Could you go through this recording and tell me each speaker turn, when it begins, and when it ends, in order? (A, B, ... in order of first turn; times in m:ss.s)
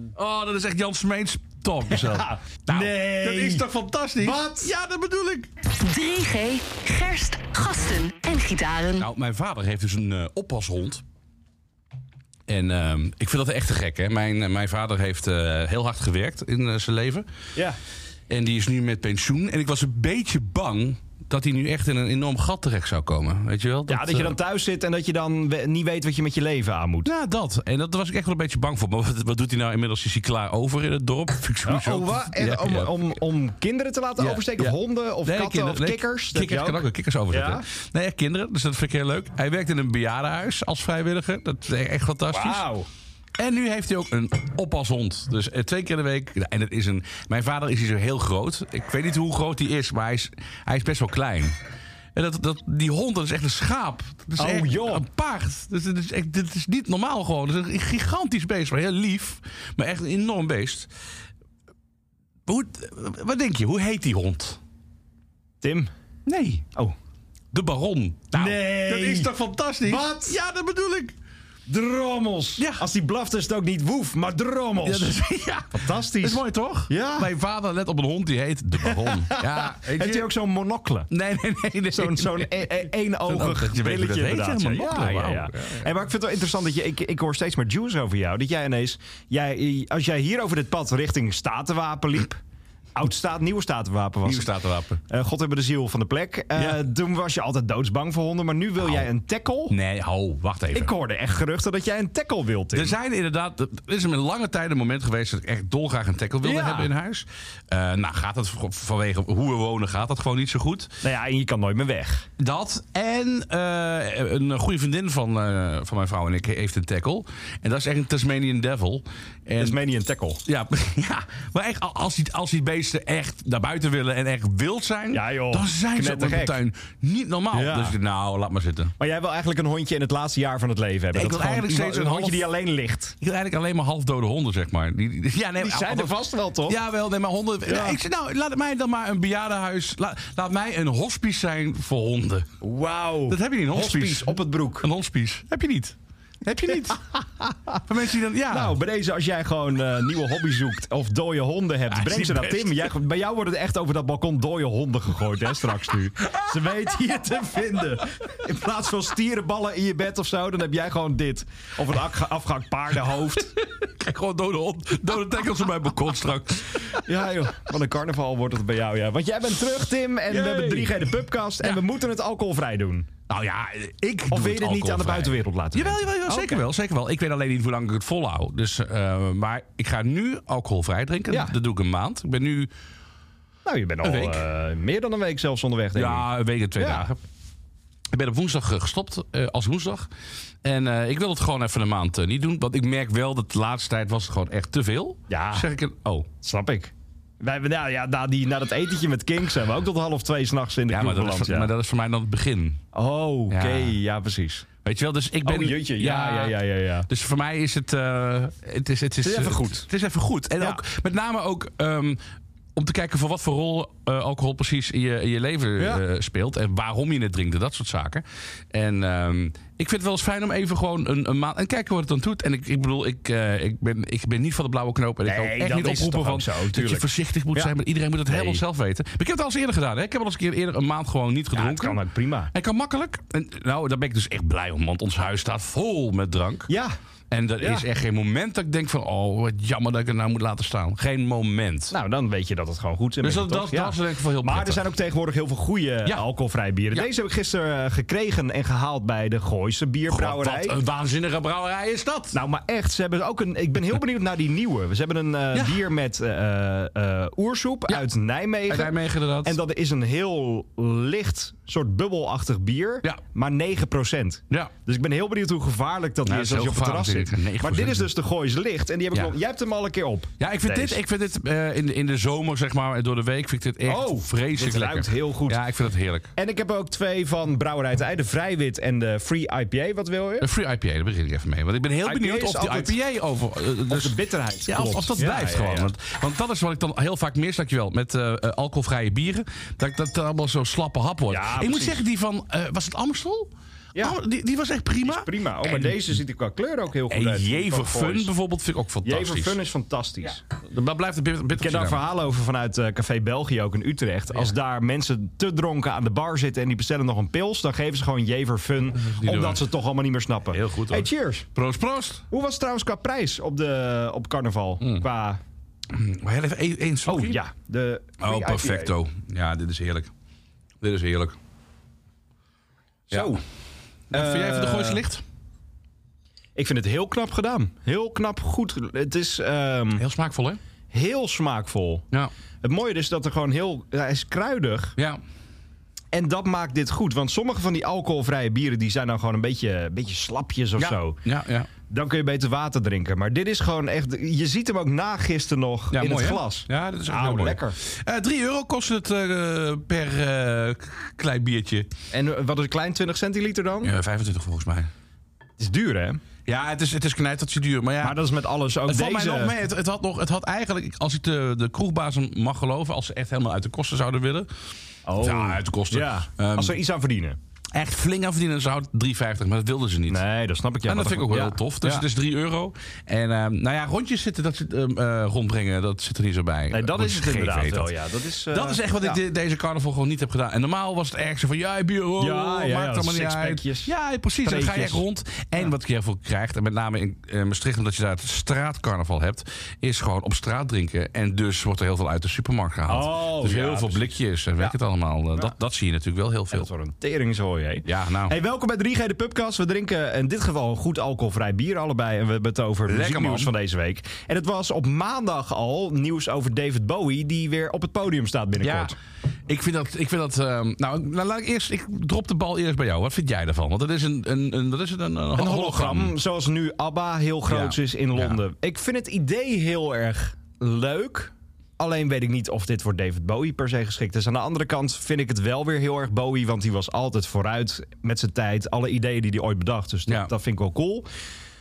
0:00.1-0:05.5 A
0:01.9-0:03.7 B
0:04.2-0:04.7 B
0:05.8-0:09.1 C
0:09.0-0:11.0 A
0:12.5-0:17.2 A
0:18.3-0:24.4 A
0:23.9-0:27.1 B
0:27.0-0:33.1 A
0:31.6-0:37.6 B
0:34.2-0:42.6 A
0:42.3-0:42.9 B
0:43.4-0:51.6 A
0:52.1-1:00.9 A
0:54.4-0:55.0 B
1:02.5-1:04.6 A
1:05.6-1:05.9 B
1:06.2-1:06.7 A
1:07.5-1:11.1 A
1:08.3-1:09.3 B
1:09.8-1:10.4 B
1:11.7-1:15.1 B
1:12.6-1:12.8 A
1:14.8-1:20.3 A
1:15.7-1:17.3 B
1:18.8-1:21.1 B
1:21.1-1:25.9 A
1:21.9-1:32.4 B
1:32.9-1:34.5 B
1:34.2-1:35.0 A
1:35.1-1:39.7 B
1:38.8-1:39.1 A
1:39.7-1:40.9 A
1:40.7-1:42.9 B
1:42.7-1:50.9 A
1:46.4-1:46.9 B
1:51.0-1:52.3 B
1:52.4-1:59.8 A
1:59.6-2:00.4 B
2:00.4-2:08.9 A
2:05.1-2:06.6 B
2:07.5-2:08.0 B
2:09.0-2:13.2 B
2:11.1-2:12.5 A
2:13.2-2:22.5 A
2:15.6-2:16.8 B
2:17.6-2:18.0 B
2:22.6-2:24.9 B
2:23.3-2:27.0 A
2:27.4-2:27.8 B
2:27.8-2:28.8 A
2:28.5-2:43.5 B
2:31.9-2:32.9 A
2:43.5-2:47.0 A
2:47.0-2:53.1 B
2:50.3-2:51.0 A
2:53.3-3:02.7 A
2:54.3-2:56.6 B
3:03.6-3:07.1 B
3:04.0-3:04.4 A
3:05.9-3:07.2 A
3:08.1-3:10.1 A
3:10.6-3:16.3 A
3:15.3-3:15.7 B
3:16.4-3:21.7 B
3:20.9-3:22.8 A
3:22.9-3:24.7 B
3:23.5-3:24.0 A
3:24.8-3:26.6 A
3:25.4-3:27.1 B
3:27.1-3:32.2 A
3:29.2-3:29.8 B
3:32.7-3:52.0 A
3:45.2-3:47.7 B
3:48.3-3:48.6 B
3:51.5-3:52.5 B
3:52.5-3:56.7 A
3:56.7-3:56.9 B
3:57.3-4:01.9 A
3:57.6-3:57.8 B
4:01.9-4:10.8 B
4:03.2-4:04.8 A
4:10.1-4:12.4 A
4:12.3-4:31.0 B
4:15.5-4:15.8 A
4:18.7-4:19.6 A
4:26.2-4:28.1 A
4:30.4-4:36.3 A
4:33.8-4:35.6 B
4:36.4-4:40.5 B
4:40.4-4:44.1 A
4:42.0-4:42.9 B
4:43.9-4:45.9 B
4:44.7-4:56.2 A
4:51.3-4:52.0 B
4:55.0-4:58.3 B
4:57.1-4:59.6 A
4:59.0-5:00.4 B
5:00.5-5:02.0 A
5:01.6-5:11.5 B
5:09.0-5:09.6 A
5:10.5-5:12.2 A
5:12.3-5:15.4 B
5:15.9-5:17.4 A
5:17.0-5:18.9 B
5:18.2-5:20.1 A
5:20.8-5:21.4 A
5:23.1-5:23.4 B
5:23.1-5:23.4 A
5:24.1-5:25.2 A
5:24.1-5:25.0 B
5:26.6-5:30.0 B
5:30.0-5:30.6 A
5:30.9-5:32.0 B
5:32.6-5:34.9 B
5:36.1-5:41.2 B
5:40.8-5:41.7 A
5:41.9-5:47.8 B
5:45.9-5:51.9 A
5:52.1-5:53.9 B
5:53.8-5:54.9 A
5:55.6-5:56.2 B
5:56.4-5:58.2 A
5:58.0-5:59.5 B
5:58.8-6:04.5 A
6:05.0-6:07.4 B
6:05.2-6:06.8 A
6:07.7-6:10.2 A
6:10.1-6:12.0 B
6:10.8-6:17.9 A
6:16.7-6:19.2 B
6:18.5-6:36.7 A
6:22.2-6:23.9 B
6:24.4-6:25.0 B
6:32.9-6:34.8 B
6:36.5-6:48.9 B
6:37.8-6:38.3 A
6:42.8-6:43.5 A
6:48.6-6:48.9 A
6:49.5-6:56.1 A
6:55.4-7:11.1 B
6:57.5-6:58.4 A